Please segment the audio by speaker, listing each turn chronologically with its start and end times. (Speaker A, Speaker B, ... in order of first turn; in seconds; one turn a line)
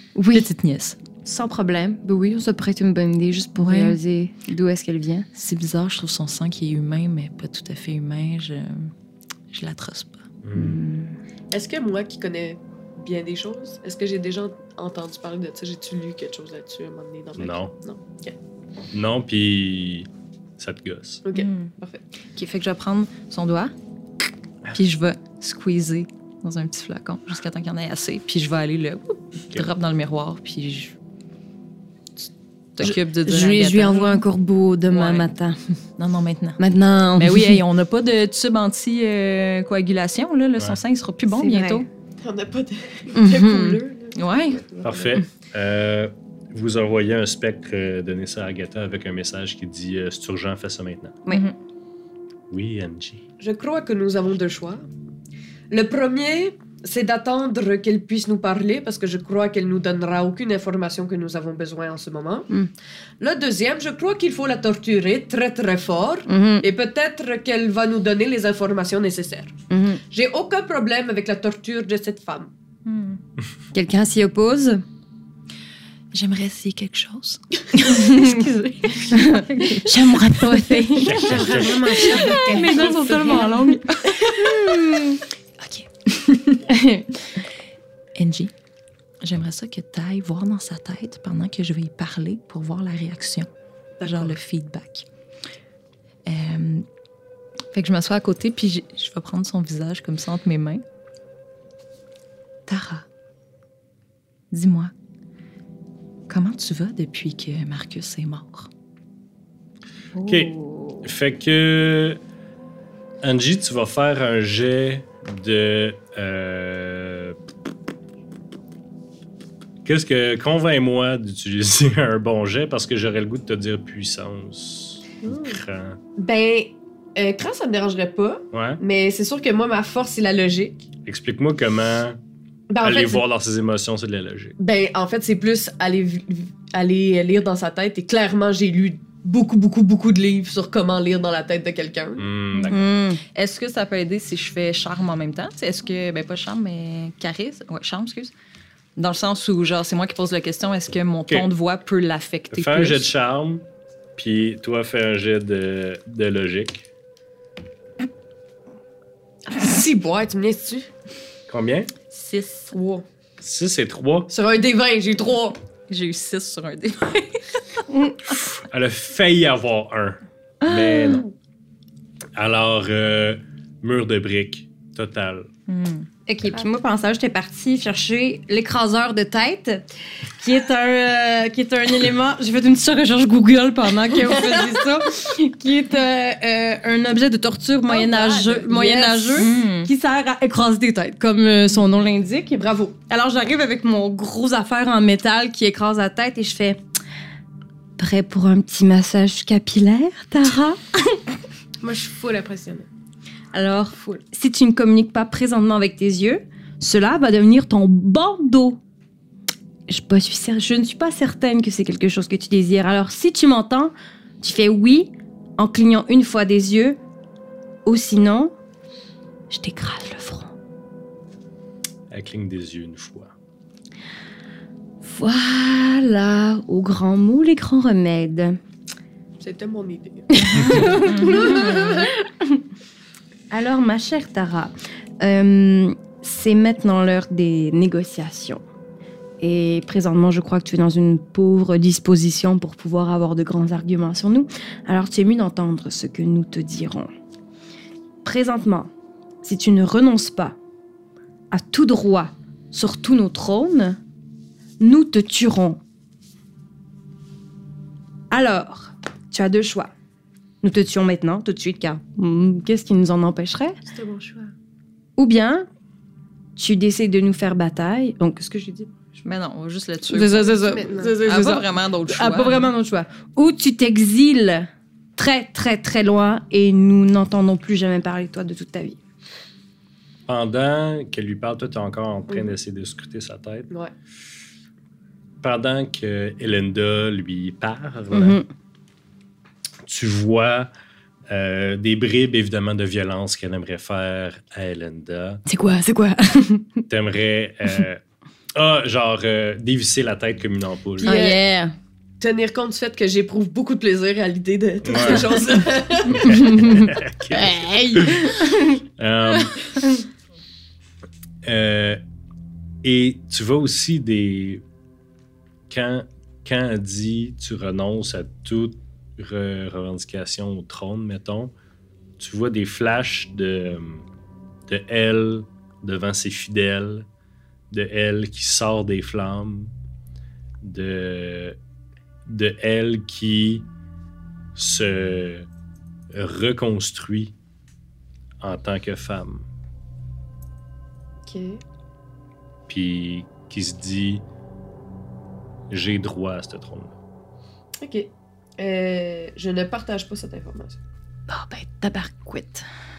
Speaker A: 0.1-0.5
Speaker B: 0.3-1.0
Speaker A: 1.2-5.3
Speaker B: 3.6-4.0
Speaker B: 5.3-8.9
Speaker B: 9.5-10.3
Speaker C: 10.4-10.8
Speaker A: 10.5-11.2
Speaker D: 11.5-18.4
Speaker C: 17.4-17.7
Speaker C: 18.9-21.2
Speaker D: 21.2-22.0
Speaker B: 21.3-21.7
Speaker B: 22.3-23.7
Speaker B: 24.7-30.9
Speaker B: 32.2-34.2
Speaker A: 32.8-35.6
Speaker B: 34.9-35.2
Speaker B: 36.0-36.6
Speaker A: 36.6-37.6
Speaker B: 37.2-41.9
Speaker A: 41.3-41.8
Speaker D: 42.2-45.2
Speaker A: 43.1-43.8
Speaker B: 44.1-44.6
Speaker C: 44.8-51.2
Speaker B: 51.3-51.5
Speaker C: 52.5-53.2
Speaker D: 53.4-54.9
Speaker D: 55.7-62.5
Speaker D: 63.2-69.5
Speaker A: 66.3-66.7
Speaker A: 69.7-70.0
Speaker D: 70.1-72.5
Speaker B: 72.8-73.2
Speaker A: 73.7-74.8
Speaker B: 76.1-85.0
Speaker A: 77.7-85.2
Speaker C: 81.0-82.0
Speaker E: 81.0-83.6
Speaker B: 85.6-86.6
Speaker A: 86.7-87.1
Speaker B: 88.2-88.5
Speaker B: 89.2-93.5
Speaker D: 94.0-94.4
Speaker B: 94.0-95.0
Speaker B: 96.2-96.8
Speaker B: 97.7-100.8
Speaker B: 102.7-103.0
Speaker B: 104.5-104.9
Speaker B: 106.3-108.7
Speaker C: 110.2-112.2
Speaker C: 113.2-117.4
Speaker C: 119.8-126.0
Speaker D: 126.2-130.9
Speaker C: 128.5-128.8
Speaker C: 131.1-132.2
Speaker D: 132.7-133.2
Speaker C: 132.8-134.6
Speaker D: 134.6-142.2
Speaker C: 142.2-142.8
Speaker B: 142.5-148.3
Speaker A: 142.7-143.2
Speaker B: 149.0-153.1
Speaker C: 152.5-156.9
Speaker D: 159.5-160.9
Speaker C: 161.5-161.9
Speaker B: 162.1-162.7
Speaker D: 162.7-163.0
Speaker C: 163.4-164.3
Speaker D: 164.3-165.6
Speaker B: 165.9-167.8
Speaker C: 168.3-171.2
Speaker C: 172.3-175.5
Speaker B: 175.7-176.1
Speaker A: 176.3-196.8
Speaker D: 184.3-184.7
Speaker D: 187.9-189.5
Speaker B: 189.4-189.9
Speaker D: 192.6-192.9
Speaker A: 198.0-201.2
Speaker E: 201.8-202.9
Speaker A: 203.5-208.8
Speaker A: 209.9-217.0
Speaker A: 217.8-218.5
Speaker A: 219.5-220.5
Speaker C: 222.1-223.3
Speaker A: 225.0-228.6
Speaker D: 229.4-231.6
Speaker A: 230.3-232.6
Speaker B: 230.8-232.0
Speaker A: 233.5-238.6
Speaker A: 239.4-247.1
Speaker A: 248.2-248.9
Speaker A: 249.4-250.6
Speaker A: 251.5-254.0
Speaker A: 254.8-255.8
Speaker A: 258.3-259.9
Speaker A: 260.6-263.8
Speaker E: 263.9-264.5
Speaker A: 265.2-265.7
Speaker A: 266.6-268.9
Speaker B: 269.2-272.7
Speaker A: 270.1-279.0
Speaker E: 270.6-271.1
Speaker C: 280.2-283.7
Speaker C: 285.4-288.4
Speaker A: 288.1-288.4
Speaker C: 289.8-290.7
Speaker C: 291.3-295.4
Speaker A: 295.4-296.9
Speaker C: 296.9-298.0
Speaker C: 298.5-301.1
Speaker A: 301.0-301.7
Speaker D: 301.0-301.4
Speaker D: 302.2-306.4
Speaker C: 304.8-305.3
Speaker A: 306.1-308.8
Speaker C: 306.3-308.3
Speaker C: 309.0-309.6
Speaker C: 311.4-312.0
Speaker C: 312.8-314.6
Speaker C: 315.7-321.5
Speaker C: 322.2-324.1
Speaker C: 324.7-327.1
Speaker C: 327.7-329.7
Speaker C: 330.6-331.6
Speaker C: 332.2-333.6
Speaker C: 334.5-335.5
Speaker C: 336.1-337.3
Speaker C: 338.4-339.4
Speaker D: 341.2-341.6
Speaker C: 342.7-344.2
Speaker C: 345.7-346.9
Speaker D: 347.8-350.8
Speaker A: 351.3-352.6